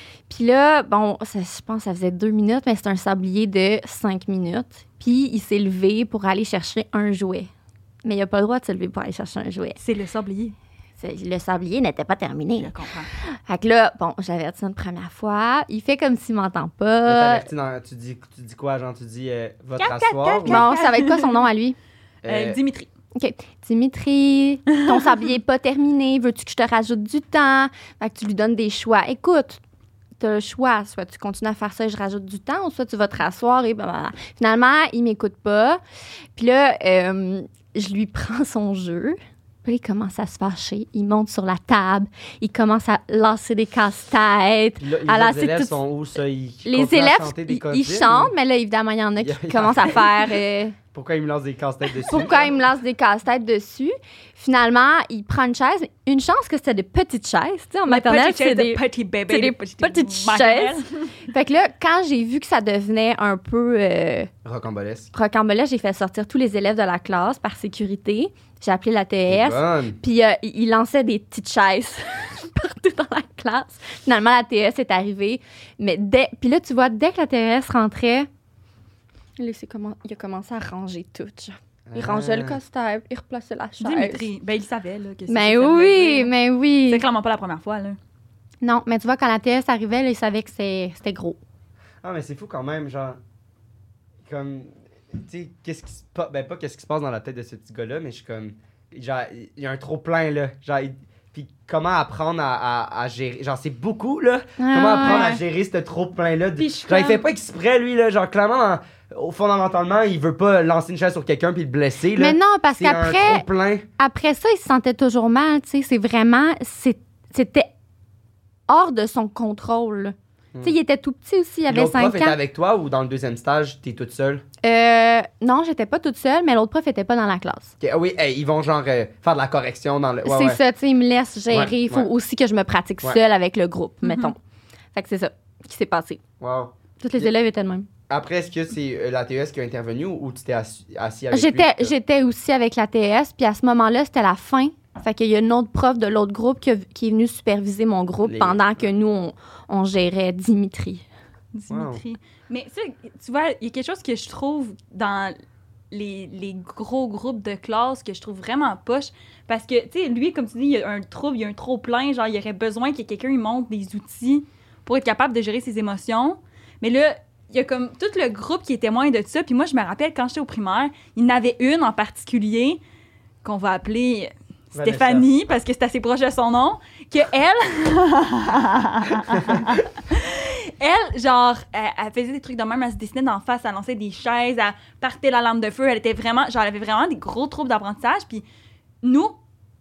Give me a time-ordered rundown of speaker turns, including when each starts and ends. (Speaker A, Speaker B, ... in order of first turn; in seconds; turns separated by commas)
Speaker A: 0.3-7.5, Speaker A: 8.0-9.8, Speaker B: 9.8-10.5, Speaker A: 11.0-12.7, Speaker B: 12.6-13.1, Speaker A: 13.5-17.5, Speaker C: 17.1-20.6, Speaker B: 19.8-21.4, Speaker A: 20.4-21.8, Speaker C: 22.2-22.6, Speaker B: 22.2-22.9, Speaker A: 23.1-29.6, Speaker A: 30.2-35.8, Speaker A: 36.3-45.8, Speaker C: 44.8-48.3, Speaker A: 46.6-50.8, Speaker C: 49.2-50.1, Speaker C: 50.9-52.5, Speaker A: 52.1-64.3, Speaker B: 57.9-61.1, Speaker C: 64.4-65.1, Speaker A: 65.1-78.3, Speaker C: 69.3-70.0, Speaker A: 79.4-84.2, Speaker C: 81.9-82.6, Speaker B: 83.8-86.3, Speaker A: 85.3-87.0, Speaker B: 86.9-88.0, Speaker A: 88.6-91.4, Speaker C: 92.0-93.2, Speaker C: 94.2-113.8, Speaker A: 104.6-105.4, Speaker B: 105.0-105.3, Speaker B: 106.6-107.2, Speaker A: 112.2-113.5, Speaker A: 114.0-117.7, Speaker A: 118.7-122.4, Speaker C: 121.7-124.4, Speaker A: 124.6-127.7, Speaker C: 127.8-130.6, Speaker A: 130.2-134.4, Speaker C: 131.5-132.1, Speaker B: 134.0-134.3, Speaker A: 134.9-136.2, Speaker C: 136.4-137.3, Speaker A: 137.0-137.9, Speaker C: 138.1-141.9, Speaker A: 141.3-151.1, Speaker C: 148.2-148.8, Speaker B: 151.5-155.3, Speaker C: 151.7-152.0, Speaker B: 155.9-172.8, Speaker B: 173.4-188.4, Speaker C: 174.7-175.3, Speaker B: 189.0-189.4